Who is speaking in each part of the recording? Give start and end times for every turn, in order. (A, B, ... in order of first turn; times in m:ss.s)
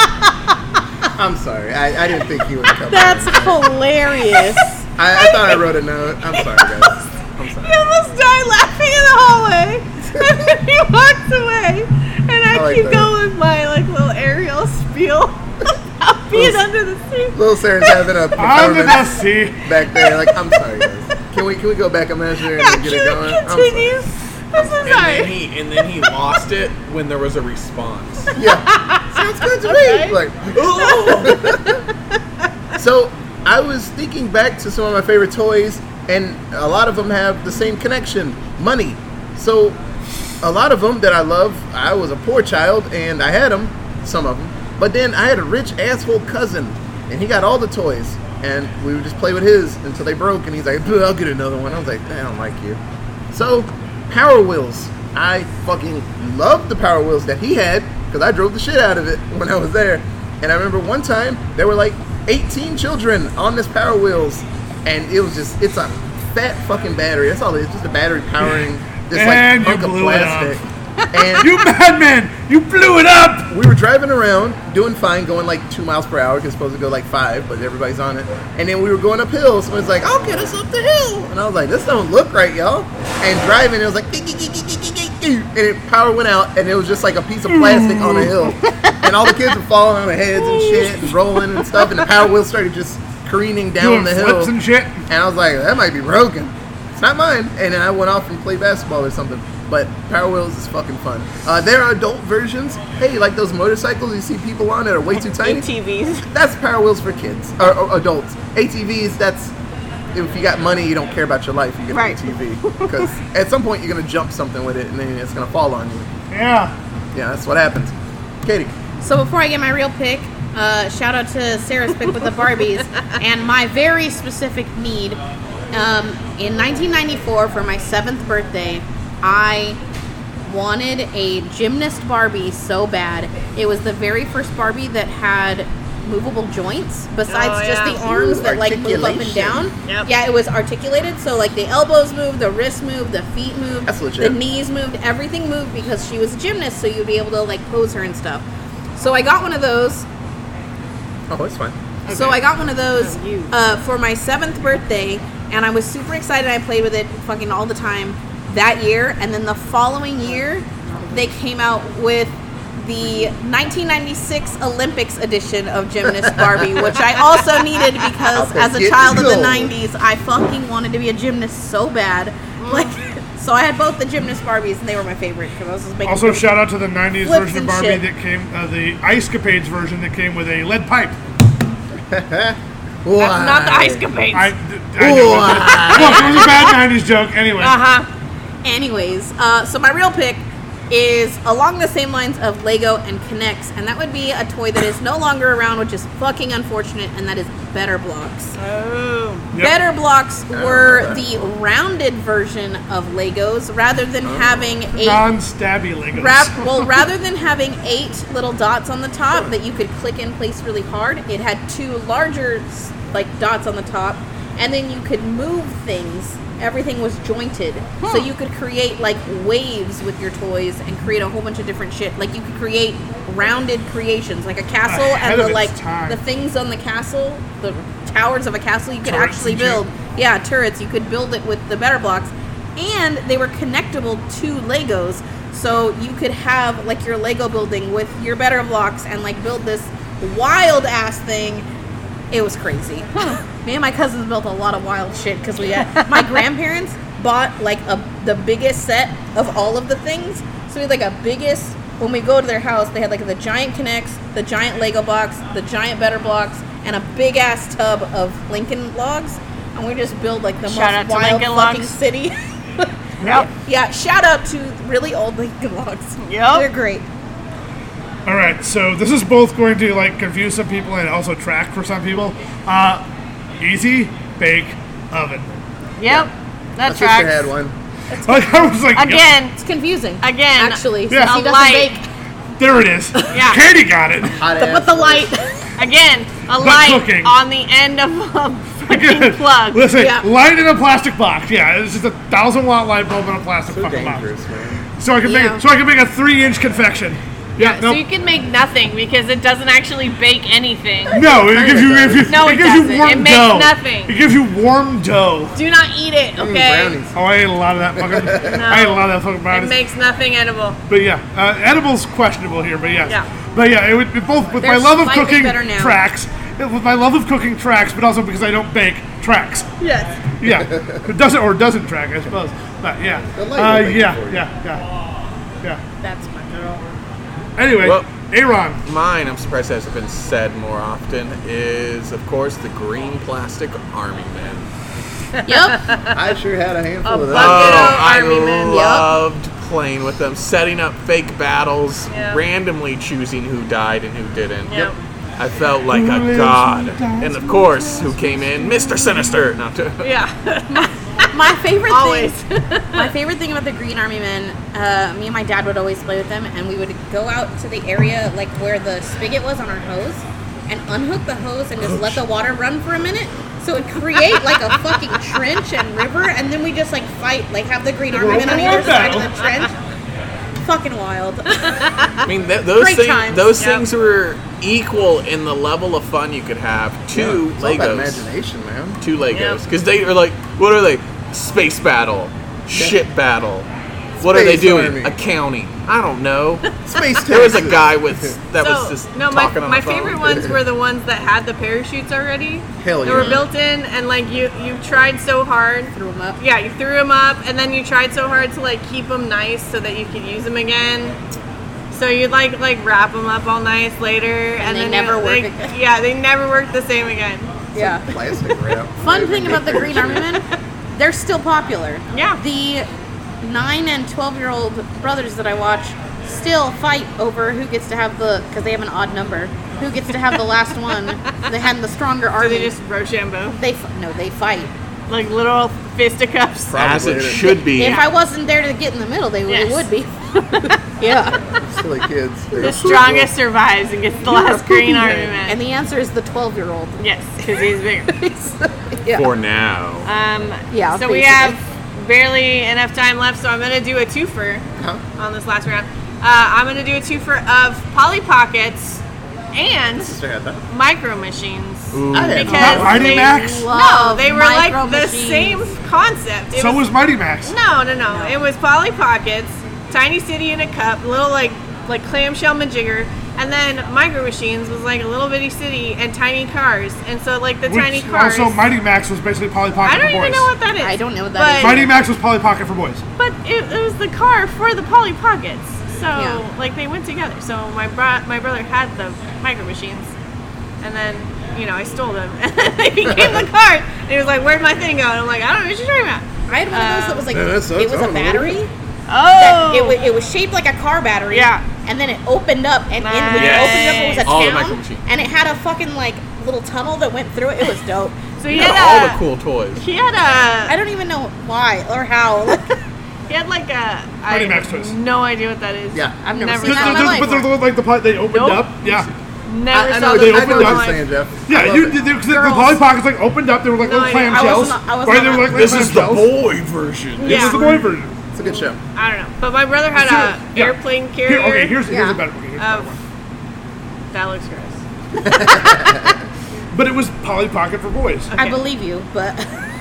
0:01.1-0:03.7 A
0:02.9-0:04.8 B
0:04.3-0:04.6 C
0:05.0-0:07.8 A
0:05.2-0:05.6 C
0:06.3-0:06.9 C
0:07.6-0:15.4 C
0:12.5-0:13.1 A
0:16.0-0:18.0 C
0:16.3-0:16.6 A
0:17.3-0:19.1 A
0:18.4-0:19.7 D
0:19.6-0:24.0 A
0:22.5-0:25.4 C
0:24.6-0:24.9 A
0:24.8-0:28.4 E
0:28.4-0:31.8 A
0:29.6-0:30.2 C
0:30.5-0:31.4 E
0:30.7-0:31.6 C
0:32.8-0:39.8 A
0:40.4-0:52.8 A
0:53.3-1:10.6 A
1:09.1-1:10.6 D
1:11.1-1:11.5 A
1:11.4-1:13.5 D
1:13.5-1:34.5 A
1:27.5-1:28.4 D
1:33.8-1:35.0 D
1:35.1-1:45.7 A
1:45.3-1:46.2 C
1:46.3-1:49.5 A
1:50.1-1:56.1 A
1:51.9-1:53.1 C
1:56.3-1:56.7 D
1:57.1-1:58.8 A
1:59.0-2:05.2 B
2:05.7-2:09.8 B
2:10.5-2:28.4 B
2:17.3-2:18.0 C
2:18.0-2:19.7 A
2:19.8-2:20.1 C
2:23.9-2:24.4 A
2:29.0-2:30.1 B
2:31.3-2:31.8 A
2:32.1-2:32.4 C
2:32.1-2:56.5 B
2:33.0-2:33.5 C
2:46.2-2:46.9 A
2:48.3-2:49.8 A
2:52.6-2:53.0 C
2:56.0-3:01.2 D
2:57.2-2:58.0 B
3:02.1-3:04.0 A
3:03.2-3:04.5 C
3:04.3-3:07.8 D
3:05.0-3:06.5 A
3:05.7-3:06.8 C
3:07.6-3:08.1 C
3:08.6-3:18.5 B
3:18.6-3:19.5 C
3:19.6-3:25.3 B
3:20.5-3:21.5 A
3:24.2-3:24.7 A
3:25.0-3:26.8 D
3:26.2-4:01.7 B
3:38.0-3:38.3 C
3:44.9-3:46.2 D
3:49.0-3:49.8 D
4:02.3-4:27.1 B
4:05.8-4:06.4 C
4:20.6-4:22.0 C
4:23.2-4:23.5 D
4:26.2-4:26.7 C
4:28.3-4:33.0 D
4:33.6-4:35.5 D
4:36.0-4:37.4 C
4:36.1-4:36.3 A
4:36.8-4:37.8 A
4:38.1-4:38.8 B
4:38.2-4:39.3 D
4:39.0-4:39.6 C
4:39.5-4:42.1 B
4:40.2-4:41.9 C
4:41.1-4:41.4 D
4:42.6-4:44.4 D
4:43.3-4:43.6 C
4:44.4-4:45.3 A
4:44.5-4:45.6 B
4:45.8-4:49.8 C
4:46.6-4:47.4 D
4:48.9-4:54.3 D
4:50.0-4:50.3 B
4:53.7-4:54.8 A
4:55.0-4:58.0 D
4:55.2-4:55.6 B
4:57.6-5:01.2 C
5:01.1-5:05.6 D
5:01.2-5:02.4 A
5:02.3-5:04.2 C
5:05.6-5:07.0 C
5:06.4-5:07.2 A
5:07.1-5:09.8 D
5:08.0-5:08.6 A
5:08.4-5:10.8 C
5:10.9-5:19.7 D
5:14.6-5:16.0 B
5:19.8-5:20.2 C
5:20.4-5:24.9 D
5:20.8-5:21.0 A
5:23.4-5:24.4 A
5:26.0-5:26.8 B
5:27.6-5:28.8 D
5:27.8-5:28.1 E
5:28.8-5:34.7 E
5:35.3-5:36.2 C
5:35.5-5:35.9 B
5:36.1-5:38.0 A
5:37.0-5:38.9 C
5:37.3-5:44.9 E
5:38.7-5:39.1 B
5:42.1-5:42.4 C
5:44.7-5:45.0 C
5:45.4-5:50.1 E
5:45.9-5:49.4 D
5:50.0-5:51.4 C
5:50.7-5:52.3 B
5:51.9-5:53.1 C
5:53.0-6:09.7 B
6:04.9-6:05.3 C
6:08.1-6:09.3 D
6:08.3-6:09.7 C
6:10.6-6:11.9 B
6:11.6-6:12.1 C
6:12.2-6:18.2 E
6:12.7-6:13.5 B
6:13.6-6:13.8 C
6:17.1-6:19.0 A
6:19.0-6:23.7 E
6:19.3-6:19.6 C
6:22.7-6:23.0 A
6:24.2-6:26.6 E
6:24.2-6:25.2 A
6:26.8-6:28.4 A
6:27.2-6:30.4 E
6:28.6-6:41.2 C
6:30.2-6:30.5 A
6:32.8-6:33.5 A
6:33.1-6:33.4 E
6:36.0-6:36.4 B
6:41.9-6:47.7 C
6:44.6-6:45.7 B
6:47.7-6:48.1 B
6:47.8-6:50.3 A
6:49.0-6:52.9 B
6:52.1-6:52.4 C
6:53.4-7:02.7 B
7:02.4-7:03.6 C
7:03.6-7:04.7 B
7:05.1-7:06.8 C
7:06.7-7:08.0 E
7:06.7-7:07.6 A
7:07.4-7:11.4 B
7:07.8-7:08.1 C
7:09.5-7:10.8 C
7:11.5-7:13.3 A
7:12.6-7:15.6 C
7:14.3-7:17.0 B
7:17.0-7:18.1 C
7:18.1-7:19.3 B
7:19.1-7:20.1 E
7:20.0-7:29.0 C
7:20.7-7:21.6 B
7:29.5-7:30.2 C
7:30.0-7:30.6 A
7:30.7-7:36.9 C
7:31.9-7:32.8 E
7:32.1-7:33.2 A
7:32.5-7:33.7 D
7:32.8-7:35.7 B
7:36.5-7:37.6 D
7:37.4-7:48.6 C
7:38.1-7:38.4 B
7:47.7-7:50.5 D
7:49.8-7:51.9 C
7:50.8-7:51.9 B
7:51.6-7:53.0 D
7:53.2-8:00.1 C
7:56.1-7:56.4 B
8:00.8-8:07.3 C
8:03.1-8:03.4 A
8:06.5-8:08.7 B
8:07.3-8:08.6 A
8:09.1-8:10.0 C
8:09.4-8:18.3 B
8:11.3-8:11.6 C
8:13.0-8:14.3 C
8:13.3-8:15.0 E
8:18.4-8:19.2 C
8:18.5-8:19.8 E
8:19.8-8:20.8 C
8:20.7-8:22.7 B
8:23.3-8:27.5 C
8:24.3-8:25.0 D
8:26.2-8:27.4 B
8:26.6-8:29.1 D
8:28.3-8:31.0 C
8:29.7-8:32.0 A
8:30.0-8:31.0 D
8:31.5-8:36.3 D
8:32.3-8:32.8 B
8:33.8-8:34.7 C
8:34.3-8:36.0 B
8:35.3-8:37.5 E
8:37.2-8:37.7 C
8:37.2-8:38.2 D
8:37.4-8:37.9 B
8:38.3-8:38.8 A
8:38.9-8:41.8 C
8:39.9-8:43.0 D
8:41.9-8:42.2 B
8:42.6-8:42.9 C
8:44.1-8:44.8 C
8:45.1-8:46.2 A
8:46.7-8:48.3 D
8:48.3-8:48.6 C
8:48.4-8:49.6 B